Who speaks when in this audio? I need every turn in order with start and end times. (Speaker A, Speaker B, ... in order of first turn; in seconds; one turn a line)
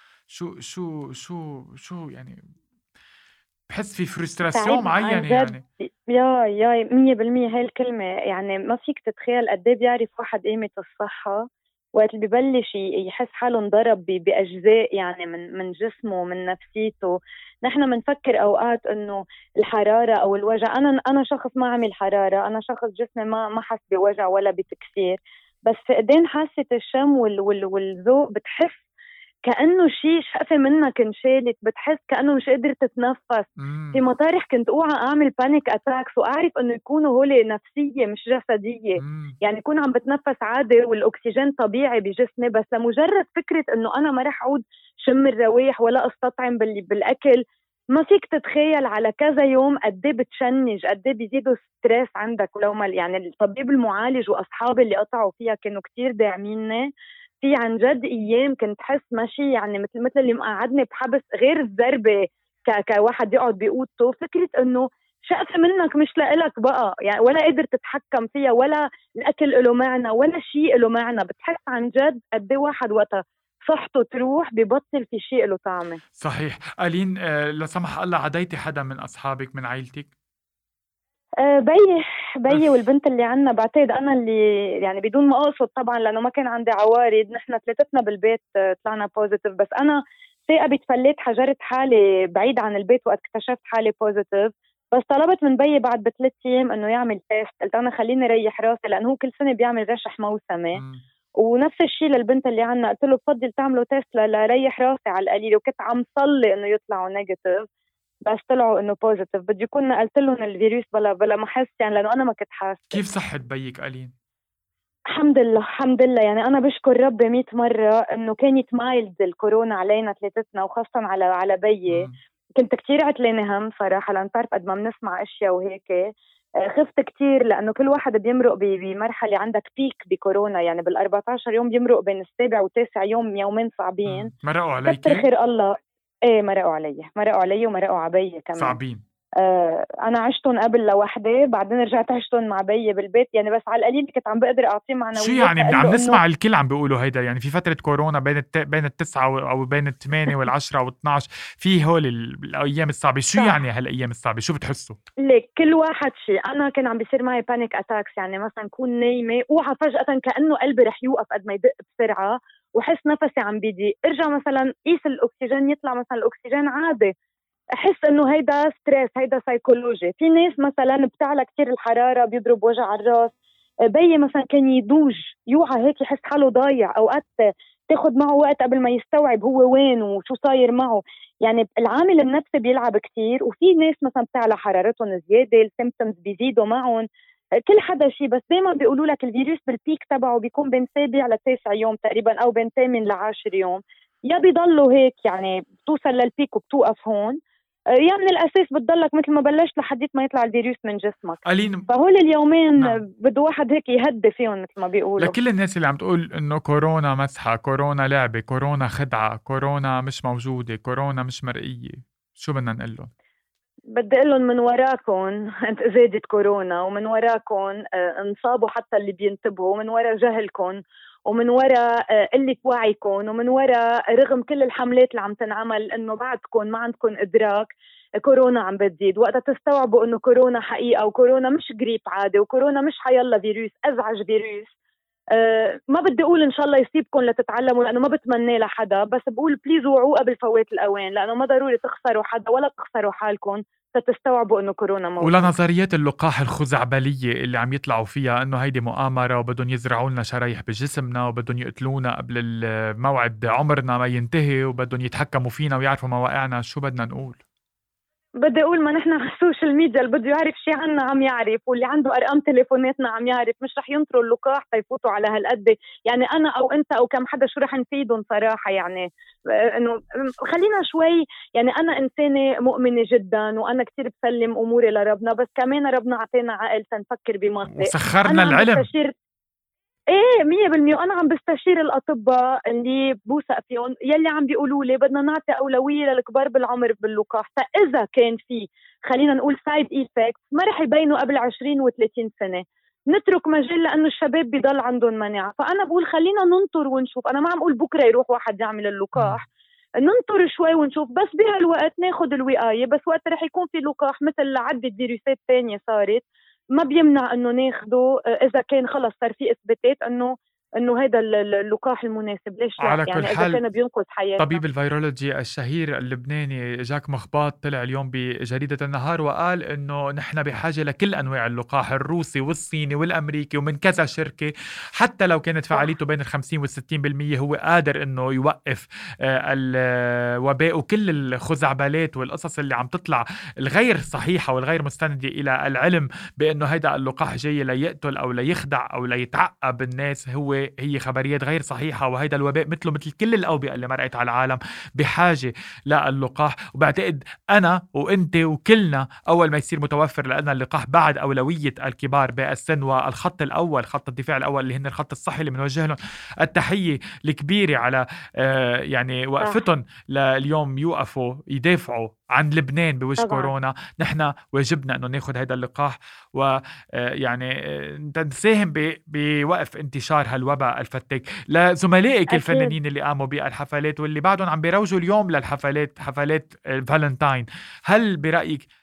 Speaker A: 0.3-2.4
Speaker A: 3.7-5.6
Speaker B: 4.5-11.4
Speaker B: 11.9-28.8
Speaker B: 29.5-47.4
Speaker A: 33.6-34.0
Speaker A: 39.0-39.3
Speaker B: 47.9-56.9
Speaker B: 57.4-76.0
Speaker A: 76.2-80.1
Speaker B: 81.4-100.8
Speaker A: 82.5-82.7
Speaker A: 100.7-101.0
Speaker B: 101.4-107.6
Speaker B: 108.2-113.0
Speaker A: 112.9-114.1
Speaker B: 115.1-134.3
Speaker A: 121.9-122.2
Speaker A: 134.1-135.3
Speaker B: 134.8-135.7
Speaker B: 136.3-138.8
Speaker A: 138.6-139.0
Speaker B: 139.4-146.2
Speaker A: 145.2-155.0
Speaker B: 153.3-153.6
Speaker B: 155.2-167.1
Speaker B: 167.7-173.3
Speaker B: 173.9-177.3
Speaker B: 177.9-187.1
Speaker B: 187.7-197.4
Speaker B: 198.0-205.3
Speaker A: 201.4-201.9
Speaker A: 205.2-213.1
Speaker B: 213.9-234.7
Speaker B: 235.3-245.5
Speaker A: 245.2-257.4
Speaker B: 258.4-279.1
Speaker A: 277.7-278.9
Speaker B: 280.1-299.4
Speaker A: 299.1-299.4
Speaker B: 300.0-306.2
Speaker B: 306.8-314.6
Speaker A: 312.8-313.6
Speaker A: 314.4-378.6
Speaker B: 359.4-359.6
Speaker B: 363.2-363.5
Speaker B: 372.3-372.8